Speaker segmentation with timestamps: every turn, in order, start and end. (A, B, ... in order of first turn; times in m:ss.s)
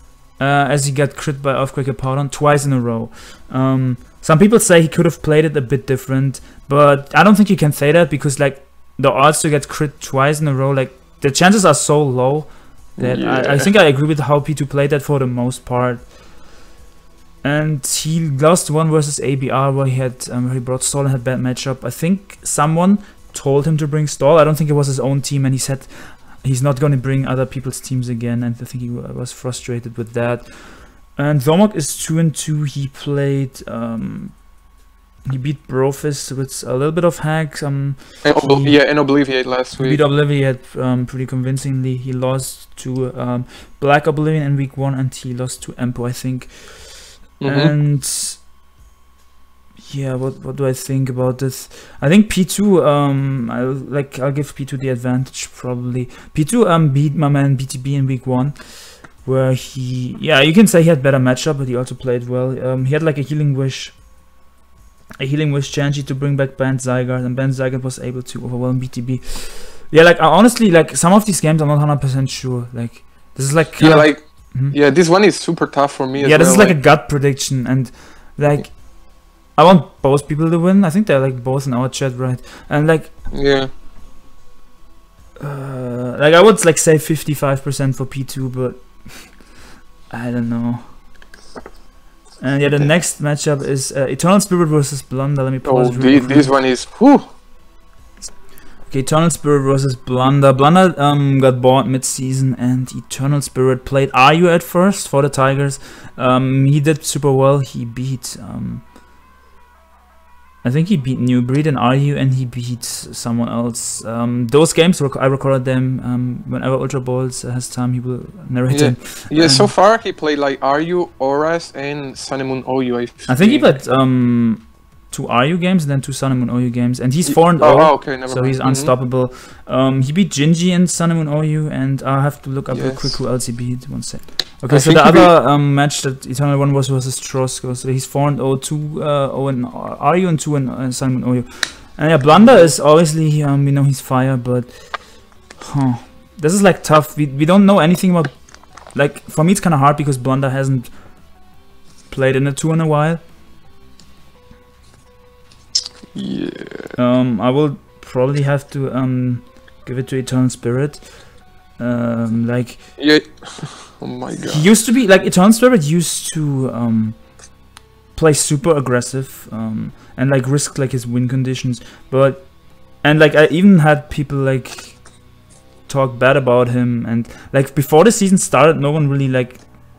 0:00.4-0:16.1 A
0:13.0-0:13.7 B
0:17.4-0:34.4 A
0:35.2-0:38.8 A
0:38.2-0:40.0 B
0:39.7-0:48.4 A
0:47.4-0:47.7 B
0:49.8-1:04.0 A
1:05.2-1:14.8 A
1:13.8-1:16.8 B
1:16.2-1:18.8 A
1:19.5-1:23.1 A
1:23.3-1:23.7 B
1:25.4-1:29.4 A
1:30.1-1:30.8 A
1:32.4-1:36.5 A
1:35.6-1:37.2 B
1:38.8-1:48.8 A
1:50.6-1:59.7 A
1:58.7-2:03.7 B
2:03.3-2:24.7 A
2:07.2-2:08.9 B
2:12.7-2:13.2 B
2:14.7-2:15.3 B
2:22.3-2:22.7 B
2:25.6-2:28.3 A
2:28.9-2:30.9 A
2:32.1-2:33.2 A
2:36.1-2:36.9 B
2:37.0-2:41.1 A
2:41.8-2:42.9 A
2:43.0-2:44.7 B
2:44.4-2:47.3 A
2:48.1-2:55.0 A
2:55.9-2:59.7 A